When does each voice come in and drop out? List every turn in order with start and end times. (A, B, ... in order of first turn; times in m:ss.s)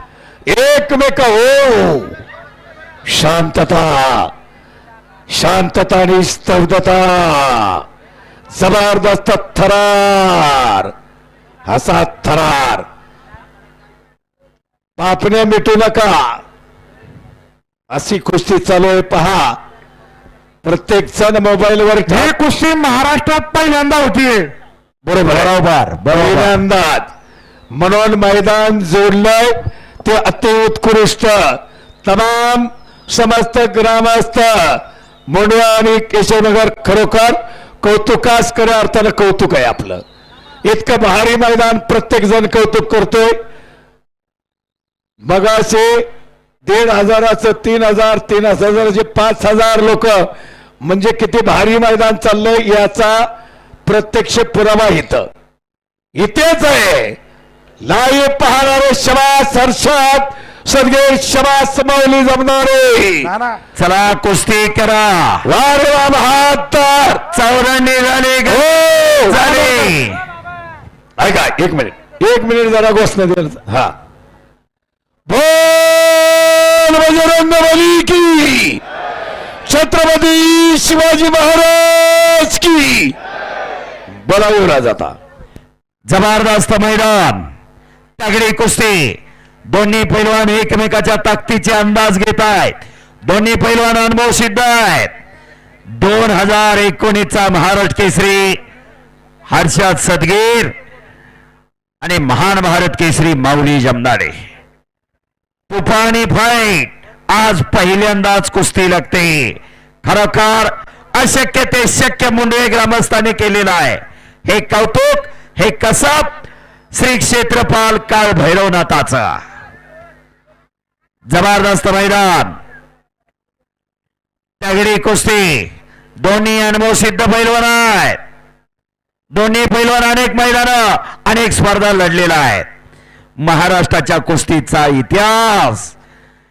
0:00.5-0:02.1 A
0:03.1-0:04.3 A
0:05.3-0:07.8 A
0:08.5-0:10.9 A
0:11.7-0:12.8 A
0:15.0-0:16.4 A
0:17.9-0:19.6 A
0:20.6-0:22.3 A
0:22.0-0:24.5 B
0:25.0-0:26.6 C
0:25.2-0:25.5 A
0:26.1-0:27.1 A
0:27.7-0:40.0 A
0:40.7-0:43.4 A
0:45.2-0:46.1 A
0:46.6-0:50.3 A
0:50.8-0:53.3 A
0:53.8-0:55.3 A
0:56.2-0:57.2 A
0:57.8-1:03.3 A
1:03.2-1:03.6 B
1:03.8-1:05.5 C
1:05.4-1:07.2 A
1:07.3-1:08.7 C
1:08.4-1:09.9 A
1:09.2-1:10.2 C
1:11.2-1:13.9 A
1:15.3-1:18.8 A
1:19.7-1:23.1 A
1:24.2-1:25.2 A
1:26.1-1:27.5 C
1:28.2-1:35.1 C
1:36.0-1:38.6 C
1:39.5-1:40.7 C
1:42.0-1:44.4 C
1:45.7-1:56.3 C
1:56.9-1:59.4 C
2:01.3-2:02.6 C
2:04.6-2:08.2 C
2:09.3-2:12.7 C
2:13.4-2:15.9 C